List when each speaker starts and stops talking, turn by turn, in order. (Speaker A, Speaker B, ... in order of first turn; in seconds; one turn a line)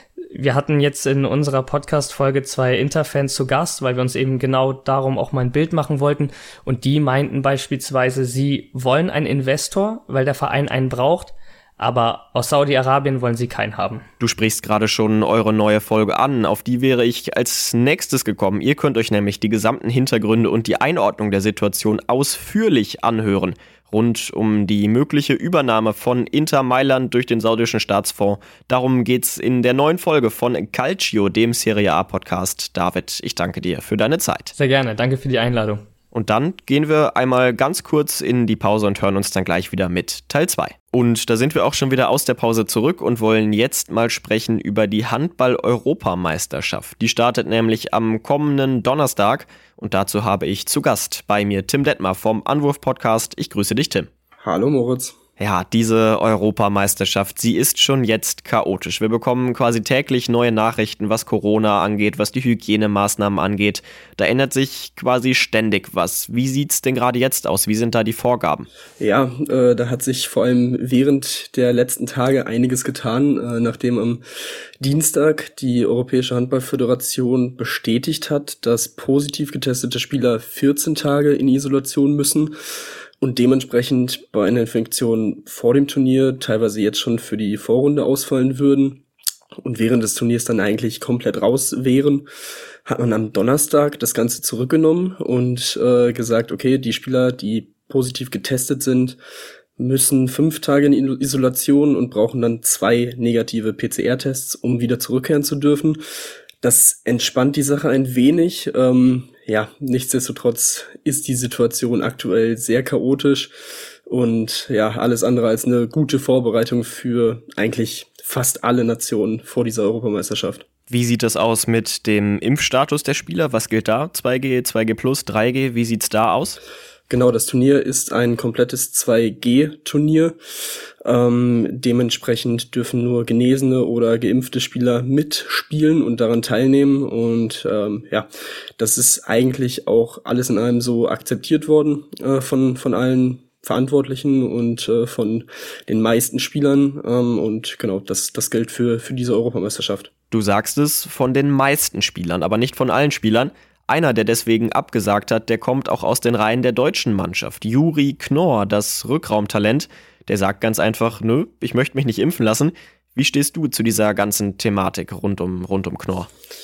Speaker A: 0.3-14.1
Speaker B: 14.2-34.5
Speaker A: 34.6-35.8
Speaker B: 36.1-54.1
Speaker C: 54.4-55.2
Speaker B: 55.4-68.7
Speaker C: 69.0-74.2
Speaker C: 74.8-82.5
Speaker C: 83.2-89.0
Speaker C: 89.6-92.3
Speaker C: 92.9-99.2
Speaker C: 99.8-106.0
Speaker C: 106.6-113.5
Speaker C: 114.1-120.7
Speaker B: 120.9-126.6
Speaker C: 127.1-130.4
Speaker C: 131.0-150.1
Speaker B: 150.3-166.3